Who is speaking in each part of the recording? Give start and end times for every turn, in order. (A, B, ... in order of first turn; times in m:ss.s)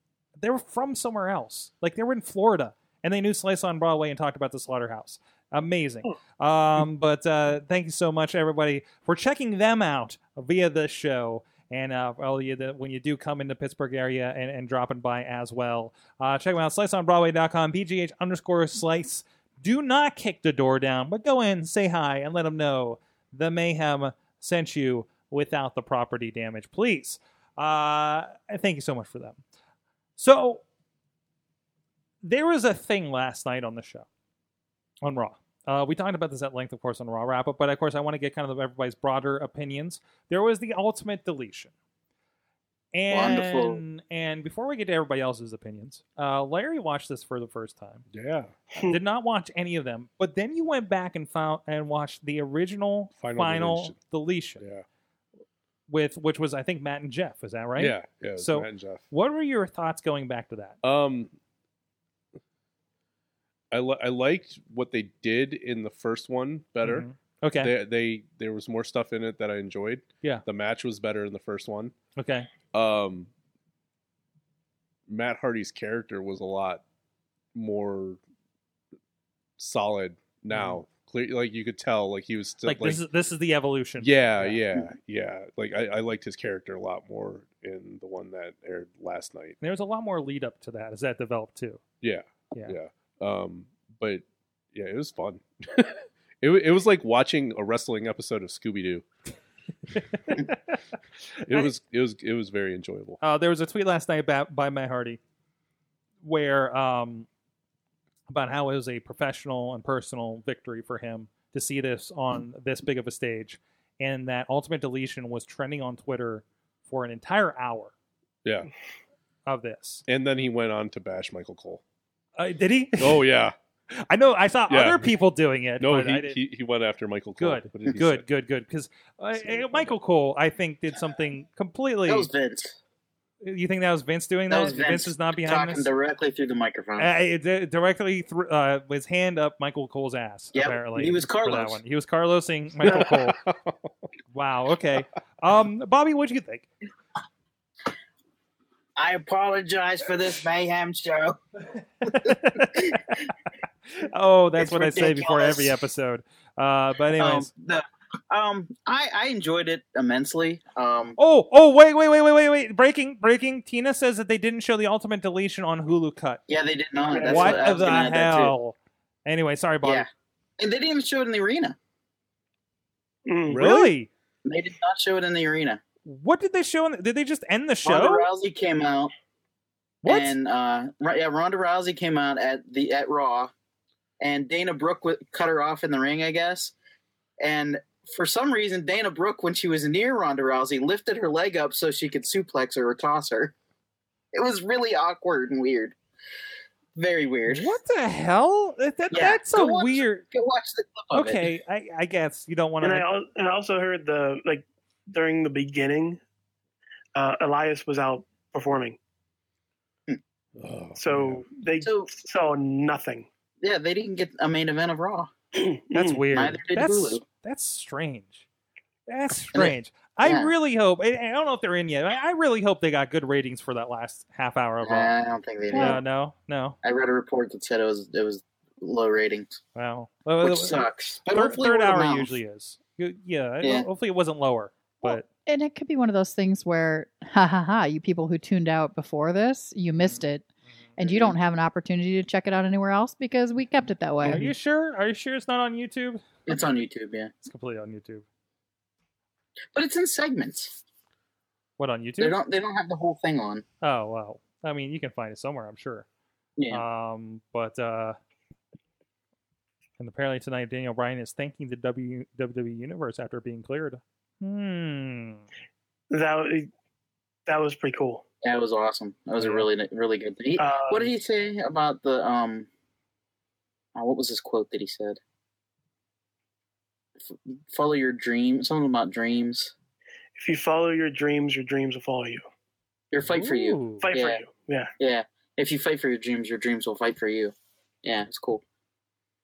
0:00.4-0:29.4 A
0:30.2-0:30.6 A
0:32.2-0:34.1 A
0:35.0-0:41.7 A
0:42.9-0:48.1 A
0:43.1-0:43.8 B
0:48.1-0:48.5 C
0:48.7-0:49.0 D
0:48.9-0:54.6 A
0:53.2-0:54.0 C
0:54.6-0:54.8 C
0:55.9-1:00.8 A
0:57.8-0:59.0 C
1:00.8-1:01.3 C
1:03.7-1:07.1 C
1:06.8-1:07.7 A
1:07.6-1:11.9 C
1:12.2-1:12.5 A
1:12.7-1:13.3 C
1:15.1-1:16.8 C
1:17.5-1:18.2 C
1:19.6-1:23.0 C
1:20.5-1:20.8 A
1:22.6-1:24.6 A
1:24.0-1:29.6 C
1:29.6-1:31.8 A
1:32.0-1:39.0 C
1:41.5-1:43.2 C
1:43.2-1:45.2 A
1:46.2-1:47.3 A
1:48.3-1:57.9 A
1:59.4-2:00.0 A
2:00.1-2:01.8 C
2:02.4-2:03.2 A
2:03.0-2:03.5 C
2:03.9-2:06.4 A
2:04.7-2:05.1 C
2:05.8-2:08.2 C
2:07.4-2:12.3 A
2:09.3-2:10.0 C
2:12.1-2:12.8 B
2:13.4-2:15.9 A
2:14.5-2:17.1 B
2:17.0-2:23.4 A
2:20.5-2:21.8 B
2:22.9-2:23.8 C
2:24.3-2:26.6 A
2:29.0-2:31.4 B
2:32.0-2:33.0 B
2:32.0-2:33.3 A
2:34.0-2:37.5 A
2:34.6-2:35.7 B
2:37.1-2:41.2 B
2:41.2-2:46.4 A
2:46.5-2:48.5 B
2:47.0-2:47.6 D
2:47.2-2:48.7 A
2:49.2-2:50.0 A
2:50.6-2:51.8 B
2:53.2-2:53.6 D
2:53.5-2:53.9 C
2:53.6-2:54.1 A
2:54.4-2:55.8 B
2:56.0-2:58.3 A
2:57.8-2:59.1 B
3:00.0-3:00.3 A
3:00.0-3:03.5 B
3:04.2-3:06.7 B
3:07.4-3:13.5 B
3:14.3-3:15.9 B
3:17.0-3:17.7 B
3:17.5-3:20.2 A
3:19.1-3:21.4 B
3:21.1-3:23.1 A
3:22.8-3:26.2 D
3:27.1-3:29.0 D
3:30.6-3:31.5 C
3:31.0-3:33.3 D
3:31.8-3:32.1 B
3:33.6-3:35.3 B
3:35.5-3:36.2 D
3:35.9-3:38.4 A
3:36.3-3:37.2 B
3:39.1-3:45.1 A
3:39.5-3:40.5 B
3:44.8-3:46.0 B
3:45.7-3:46.0 E
3:45.7-3:46.8 A
3:46.8-3:49.6 B
3:49.7-3:55.2 A
3:50.4-3:52.4 B
3:53.6-3:53.9 B
3:55.0-4:04.5 E
3:59.9-4:00.2 A
4:01.0-4:01.3 B
4:04.2-4:06.2 A
4:06.5-4:07.3 B
4:07.4-4:08.2 A
4:09.7-4:10.8 B
4:11.8-4:12.4 A
4:12.2-4:13.6 B
4:13.8-4:16.0 A
4:16.6-4:16.8 B
4:16.7-4:18.2 A
4:20.0-4:25.4 A
4:26.1-4:26.7 D
4:27.5-4:28.2 D
4:28.4-4:32.7 B
4:30.6-4:31.1 D
4:33.9-4:35.2 B
4:37.3-4:39.7 B
4:40.4-4:42.4 D
4:43.1-4:44.4 B
4:43.2-4:44.1 A
4:44.0-4:44.9 D
4:45.0-4:48.6 B